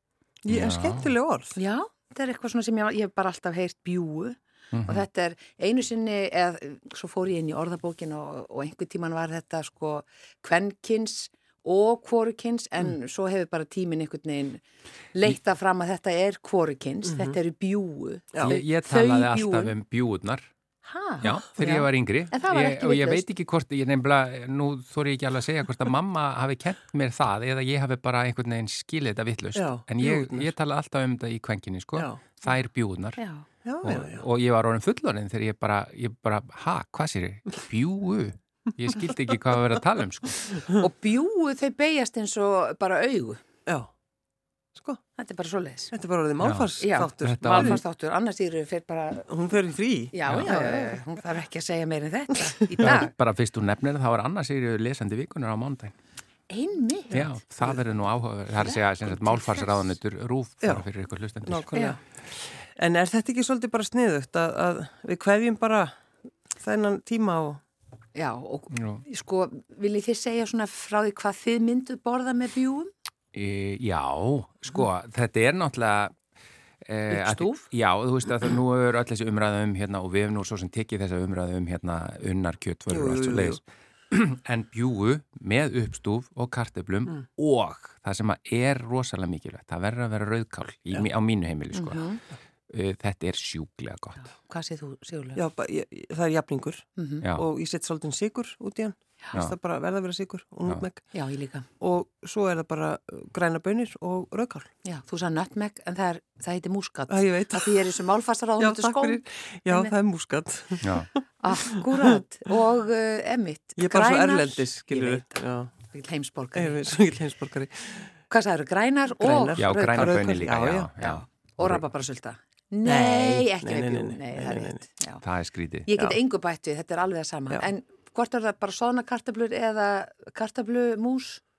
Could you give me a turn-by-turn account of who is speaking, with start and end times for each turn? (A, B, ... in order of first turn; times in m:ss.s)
0:00.4-0:01.6 A
0:00.5-0:01.1 B
0:01.6-0:14.6 C
0:04.7-0:05.0 B
0:15.1-0:19.7 C
0:17.0-0:17.4 A
0:18.4-0:20.5 B
0:20.8-0:23.3 C
0:21.2-0:33.2 B
0:29.5-0:30.5 A
0:32.0-0:32.3 A
0:33.2-0:33.4 C
0:33.6-0:34.3 A
0:33.8-0:40.6 B
0:40.7-0:43.4 C
0:44.7-0:45.0 A
0:45.2-0:45.9 C
0:45.9-0:47.8 A
0:46.4-0:47.8 B
0:46.8-0:49.3 C
0:49.3-0:51.0 A
0:50.1-0:53.1 C
0:50.2-0:50.5 B
0:52.8-0:55.9 B
0:56.5-0:57.3 C
0:57.1-1:01.7 B
0:57.2-0:57.8 A
0:58.6-0:59.9 C
1:01.4-1:02.0 A
1:01.7-1:02.0 C
1:02.6-1:05.9 A
1:06.6-1:07.6 A
1:08.1-1:12.9 C
1:08.7-1:09.0 B
1:13.3-1:16.1 B
1:16.8-1:32.0 B
1:17.1-1:17.7 C
1:22.9-1:23.6 A
1:31.7-1:32.2 C
1:32.7-1:34.2 B
1:34.2-1:35.4 C
1:35.3-1:41.1 A
1:37.0-1:37.2 C
1:41.1-1:41.7 C
1:41.8-1:44.7 A
1:44.8-1:49.9 C
1:47.1-1:48.0 A
1:48.6-1:51.1 A
1:50.8-1:51.1 B
1:51.4-1:56.8 C
1:51.6-1:51.9 A
1:53.8-1:55.7 A
1:56.5-1:58.1 A
1:58.3-2:00.2 C
1:59.2-2:00.9 A
1:59.6-2:01.8 B
2:01.0-2:05.2 C
2:02.8-2:04.8 A
2:05.2-2:05.9 B
2:05.8-2:11.4 C